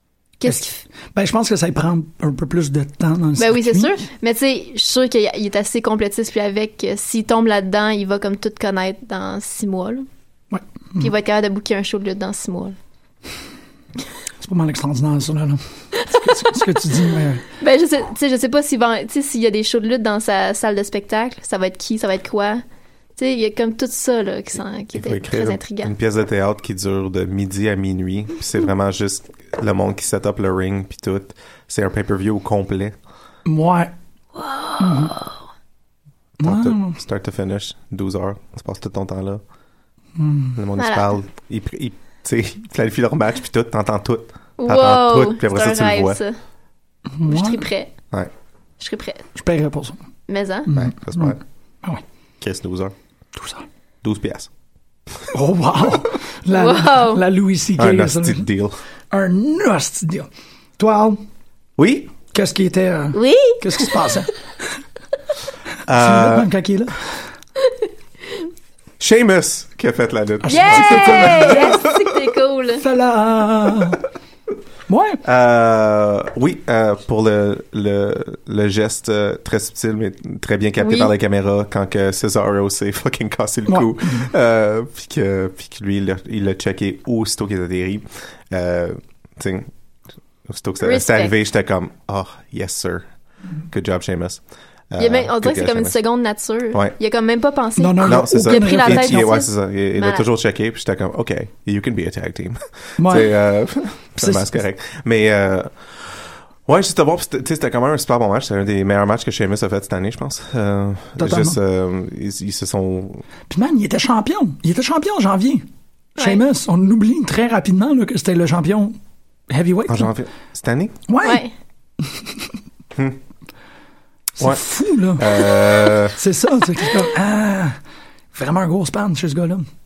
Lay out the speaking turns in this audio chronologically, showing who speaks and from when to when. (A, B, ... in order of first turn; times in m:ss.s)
0:00.4-0:00.8 A
0:00.4-0:03.9 B
0:03.4-0:10.0 A
0:10.5-0:11.1 B
0:11.0-0:12.8 A
0:14.4-0:17.4 B
0:17.6-0:22.6 A
0:23.2-0:25.9 A
0:24.9-0:33.0 C
0:33.4-0:33.9 B
0:34.5-0:35.3 A
0:34.8-0:35.2 B
0:36.4-0:37.0 B
0:36.4-0:39.4 C
0:40.2-0:40.6 B
0:40.6-0:46.2 C
0:40.8-0:41.1 A
0:44.6-0:46.4 A
0:47.2-0:47.6 B
0:47.3-0:47.9 A
0:48.8-0:49.3 A
0:49.3-0:50.0 B
0:50.3-0:50.7 A
0:50.6-0:52.0 B
0:50.7-0:51.4 C
0:52.4-0:52.9 C
0:53.3-0:53.6 B
0:54.0-0:54.5 C
0:55.3-0:58.4 B
0:56.5-0:57.2 A
0:57.8-0:58.8 C
0:59.1-1:01.2 B
1:01.8-1:02.1 C
1:02.3-1:04.3 B
1:03.1-1:03.9 A
1:05.8-1:06.5 C
1:05.9-1:07.2 B
1:09.0-1:12.0 C
1:10.5-1:12.8 A
1:10.5-1:11.7 B
1:12.8-1:14.0 B
1:14.9-1:15.2 B
1:15.2-1:29.7 C
1:20.8-1:21.1 A
1:23.7-1:24.3 B
1:30.4-1:33.1 C
1:30.8-1:31.4 A
1:33.7-1:36.0 C
1:35.0-1:40.2 A
1:37.8-1:39.3 B
1:38.0-1:53.2 C
1:43.0-1:43.3 B
1:44.2-1:44.5 B
1:51.2-1:51.6 B
1:53.5-1:55.6 B
1:56.2-1:56.4 A
1:56.2-1:59.0 B
1:59.5-2:00.1 B
1:59.9-2:01.0 C
2:01.1-2:01.4 B
2:01.2-2:01.5 A
2:02.0-2:02.5 B
2:04.4-2:07.8 B
2:04.4-2:06.2 C
2:08.3-2:09.7 B